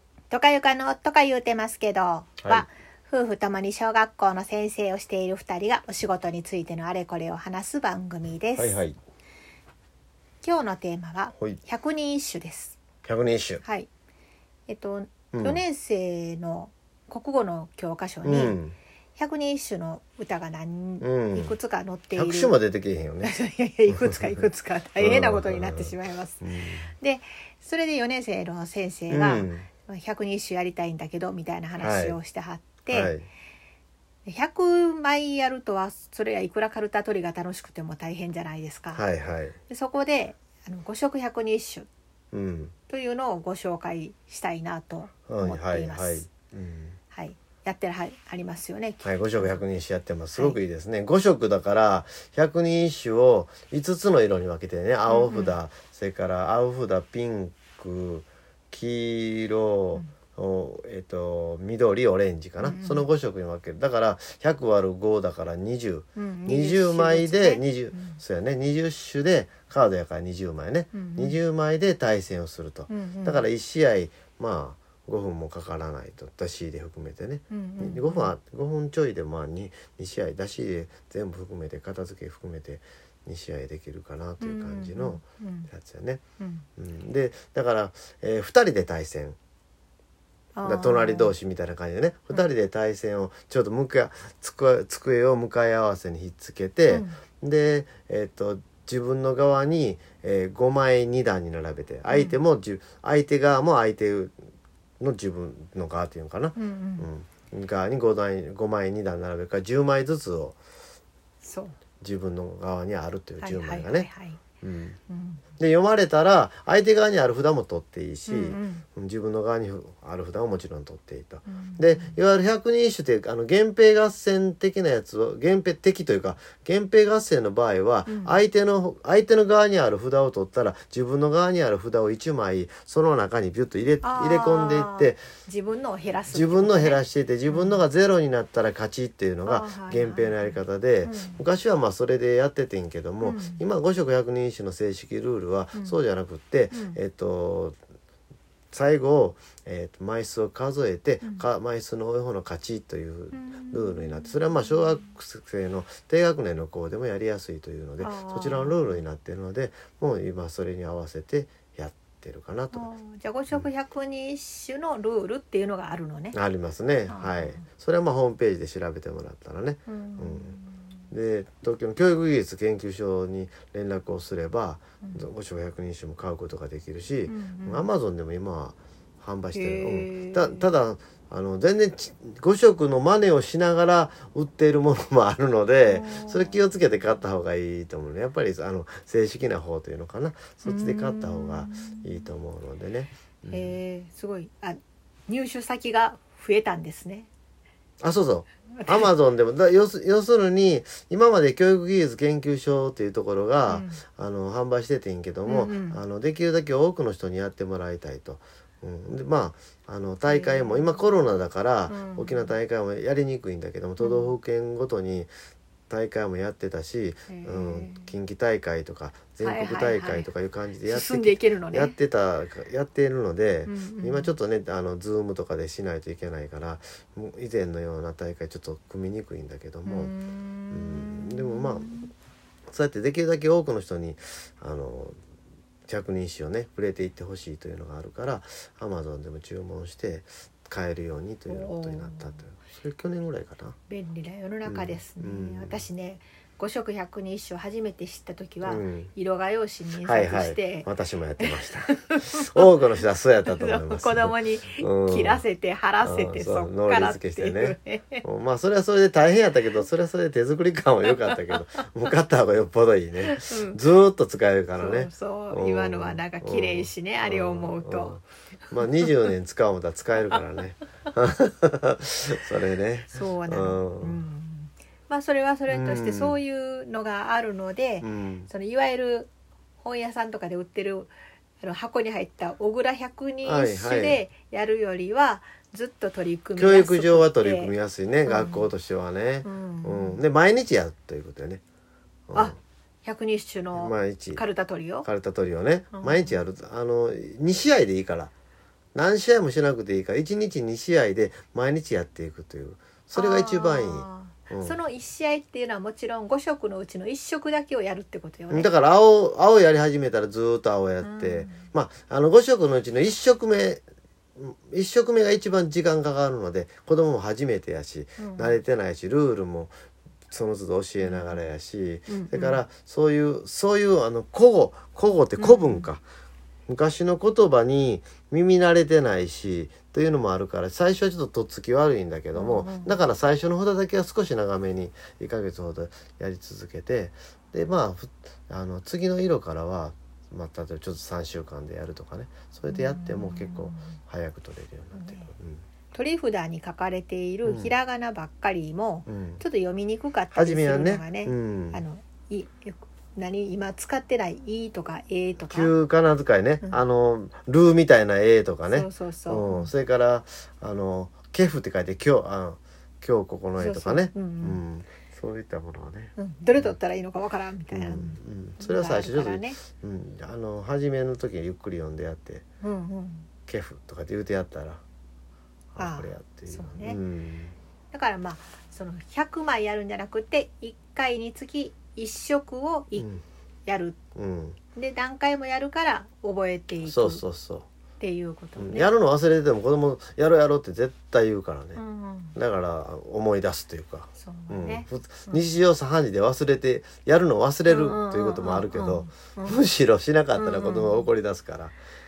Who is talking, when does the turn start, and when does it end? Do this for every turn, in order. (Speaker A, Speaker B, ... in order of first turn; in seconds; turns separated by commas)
Speaker A: 0.3-8.8, Speaker B: 8.6-9.0, Speaker A: 10.4-12.8, Speaker B: 13.0-13.6, Speaker A: 13.6-13.9, Speaker A: 14.7-18.6, Speaker B: 15.3-15.6, Speaker B: 18.2-18.7, Speaker A: 19.2-22.6, Speaker B: 21.0-21.6, Speaker B: 22.1-23.3, Speaker A: 23.2-26.4, Speaker B: 23.9-24.4, Speaker B: 25.0-26.9, Speaker A: 27.0-33.1, Speaker B: 29.1-29.7, Speaker B: 31.8-32.2, Speaker B: 32.9-33.3, Speaker A: 34.2-39.0, Speaker B: 38.9-39.5, Speaker A: 39.7-41.9, Speaker B: 42.3-42.7, Speaker A: 42.9-46.3, Speaker B: 45.3-47.0, Speaker A: 47.1-49.6, Speaker B: 49.0-86.2, Speaker A: 55.1-55.5, Speaker A: 62.6-63.1, Speaker A: 66.2-68.2, Speaker A: 70.9-71.4, Speaker A: 72.9-73.4, Speaker A: 77.5-78.3, Speaker A: 84.4-85.7, Speaker A: 86.4-86.7, Speaker B: 86.8-89.4, Speaker A: 90.5-91.3, Speaker B: 90.6-104.3, Speaker A: 96.9-97.2, Speaker A: 102.1-102.4, Speaker B: 105.0-110.6, Speaker A: 106.5-107.1, Speaker A: 111.4-111.8, Speaker B: 112.0-114.1, Speaker A: 113.4-114.4, Speaker B: 114.6-115.0, Speaker A: 115.1-115.4, Speaker B: 115.6-135.2, Speaker A: 118.2-118.8, Speaker A: 121.5-122.2, Speaker A: 128.1-128.4, Speaker A: 134.0-137.8, Speaker B: 136.3-147.8, Speaker A: 139.4-141.4, Speaker A: 143.2-143.6, Speaker A: 145.7-146.0, Speaker A: 146.7-147.0, Speaker B: 148.7-162.9, Speaker A: 151.2-151.5, Speaker A: 153.3-155.1, Speaker A: 158.0-159.0, Speaker A: 162.7-166.3, Speaker B: 166.3-170.6, Speaker A: 167.1-167.6, Speaker A: 169.9-170.9, Speaker B: 171.1-193.8, Speaker A: 177.3-177.9, Speaker A: 179.5-180.7, Speaker A: 185.8-186.6, Speaker A: 190.6-192.3, Speaker A: 193.5-197.3, Speaker B: 198.0-215.3, Speaker A: 198.8-199.1, Speaker A: 203.7-204.0, Speaker A: 205.4-206.0, Speaker A: 210.2-211.1, Speaker A: 211.9-212.6, Speaker A: 214.0-214.3, Speaker B: 215.9-230.1, Speaker A: 217.3-218.1, Speaker A: 219.4-220.3, Speaker A: 220.8-221.9, Speaker A: 223.7-224.3, Speaker A: 229.8-232.1, Speaker B: 230.7-232.0, Speaker B: 232.7-235.2, Speaker B: 235.9-243.8, Speaker A: 241.5-242.4, Speaker A: 243.9-250.9, Speaker B: 244.7-245.8, Speaker B: 248.6-249.1, Speaker B: 250.0-255.4, Speaker A: 251.4-252.6, Speaker A: 253.4-258.2, Speaker B: 256.0-274.2, Speaker A: 261.2-261.6, Speaker A: 263.2-263.8, Speaker A: 264.8-268.2, Speaker A: 268.8-269.3, Speaker A: 273.1-287.7, Speaker B: 275.7-276.4, Speaker B: 278.0-278.5, Speaker B: 283.4-284.2, Speaker B: 286.6-291.6, Speaker A: 288.2-288.7, Speaker A: 289.4-290.2, Speaker B: 292.3-292.6, Speaker A: 292.3-295.1, Speaker B: 293.7-294.4, Speaker B: 295.0-298.3, Speaker A: 295.9-296.4, Speaker B: 298.9-304.8, Speaker A: 303.1-308.7, Speaker B: 308.5-313.8, Speaker A: 311.0-311.7, Speaker B: 314.4-319.7, Speaker A: 318.2-318.6, Speaker B: 320.3-326.0, Speaker A: 321.0-321.4, Speaker A: 322.1-322.6, Speaker A: 325.4-325.9, Speaker B: 326.7-345.6, Speaker A: 332.3-332.9, Speaker A: 342.7-343.9, Speaker A: 344.9-345.3, Speaker A: 345.9-355.7, Speaker B: 347.4-347.7, Speaker B: 349.1-349.4, Speaker B: 350.3-351.8, Speaker B: 355.4-366.8, Speaker A: 358.7-359.7, Speaker A: 363.6-364.6, Speaker A: 366.2-369.6, Speaker B: 367.7-372.4, Speaker A: 372.6-373.3, Speaker B: 373.5-374.8, Speaker B: 375.7-377.5, Speaker A: 375.8-377.0, Speaker A: 377.9-383.1, Speaker B: 383.0-383.2, Speaker A: 383.6-384.0, Speaker B: 384.1-384.6, Speaker A: 384.7-387.2, Speaker B: 386.8-387.7, Speaker A: 388.0-388.9, Speaker B: 388.6-391.8, Speaker A: 391.7-392.3, Speaker B: 392.3-401.7, Speaker A: 394.2-395.4, Speaker A: 397.6-399.6, Speaker A: 400.3-401.1